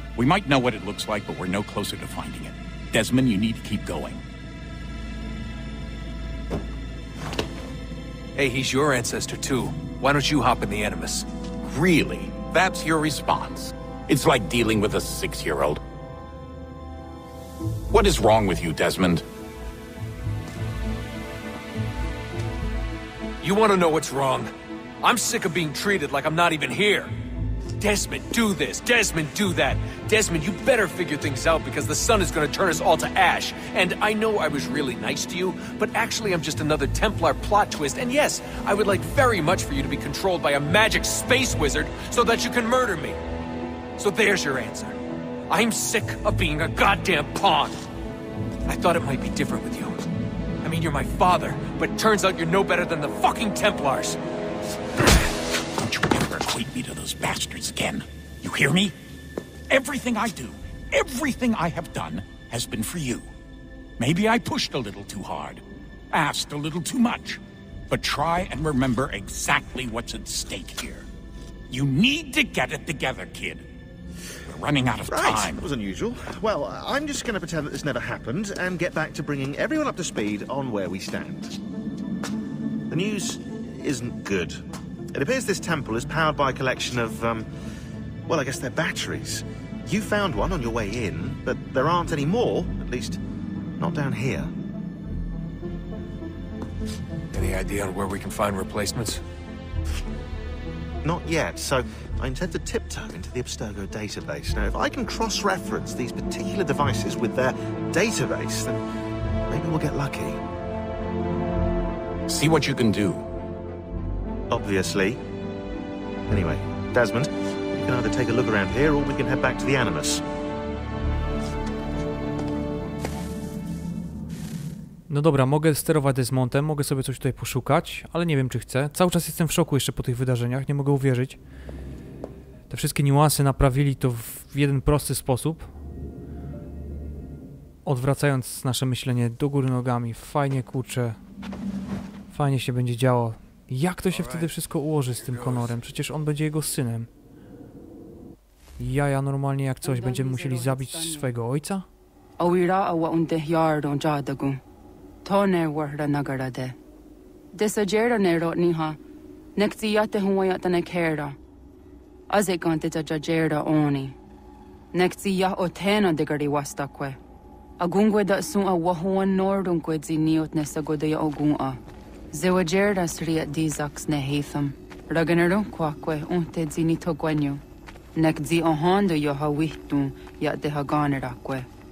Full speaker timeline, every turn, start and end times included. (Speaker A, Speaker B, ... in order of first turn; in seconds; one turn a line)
Speaker A: 0.1-4.2
Speaker B: 8.3-11.2
Speaker A: 11.6-15.8
Speaker A: 17.9-19.2
Speaker B: 23.4-27.1
Speaker B: 27.8-43.2
Speaker B: 44.0-45.0
Speaker B: 45.5-47.8
Speaker B: 48.7-50.1
Speaker B: 50.6-54.2
Speaker A: 55.8-58.9
Speaker A: 59.7-63.3
Speaker A: 64.0-71.0
Speaker A: 71.7-73.6
Speaker A: 74.5-75.6
Speaker C: 75.0-81.6
Speaker C: 82.9-84.6
Speaker C: 85.1-87.5
Speaker C: 88.3-93.2
Speaker C: 93.8-94.5
Speaker B: 97.3-99.2
Speaker C: 101.0-108.8
Speaker C: 109.5-110.4
Speaker A: 112.3-113.2
Speaker C: 114.5-115.2
Speaker C: 116.3-120.2
Speaker D: 125.1-131.4
Speaker D: 132.7-135.7
Speaker D: 137.8-141.2
Speaker D: 142.3-147.1
Speaker D: 148.8-151.9
Speaker E: 149.8-151.3
Speaker E: 152.4-154.6
Speaker E: 155.2-156.8
Speaker E: 157.5-159.0
Speaker E: 159.6-161.4
Speaker E: 162.3-164.2
Speaker E: 164.9-167.2
Speaker E: 167.8-171.8
Speaker E: 172.3-177.6
Speaker E: 178.1-181.7